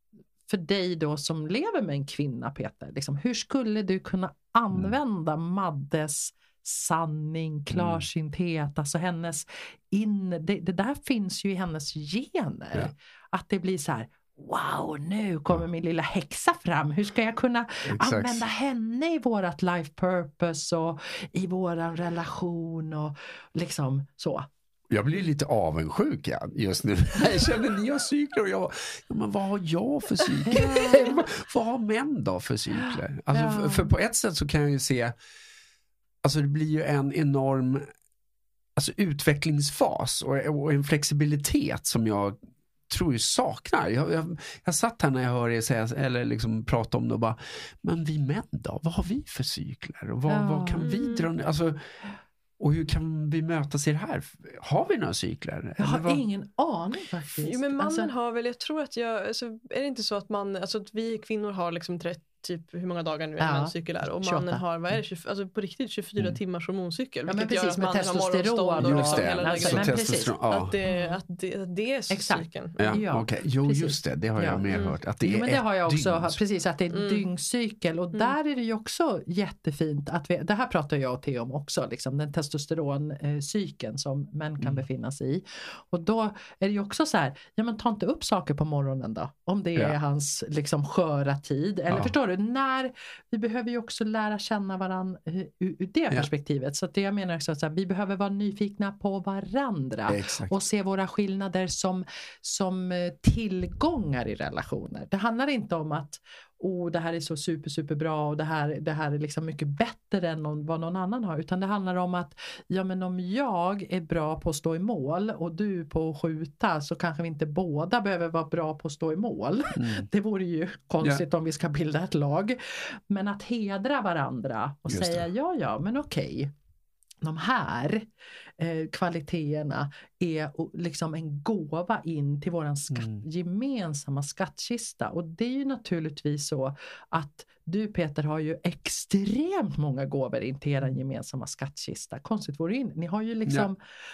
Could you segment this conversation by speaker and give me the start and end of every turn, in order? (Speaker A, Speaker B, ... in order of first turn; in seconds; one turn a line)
Speaker A: 0.5-24.5
Speaker B: 7.7-8.0
Speaker B: 17.9-18.4
Speaker B: 24.9-35.1
Speaker A: 30.5-31.3
Speaker A: 33.3-33.9
Speaker B: 36.2-37.9
Speaker B: 38.8-42.4
Speaker B: 42.9-51.8
Speaker A: 50.3-50.9
Speaker C: 50.8-51.3
Speaker B: 52.6-56.2
Speaker A: 55.8-58.1
Speaker C: 57.4-73.0
Speaker A: 63.4-64.6
Speaker A: 67.3-71.2
Speaker B: 68.8-70.7
Speaker A: 72.1-126.5
Speaker B: 72.8-76.4
Speaker C: 74.7-75.0
Speaker C: 76.9-77.2
Speaker B: 100.1-100.5
Speaker B: 119.8-120.0
Speaker B: 124.9-125.2
Speaker A: 127.2-143.8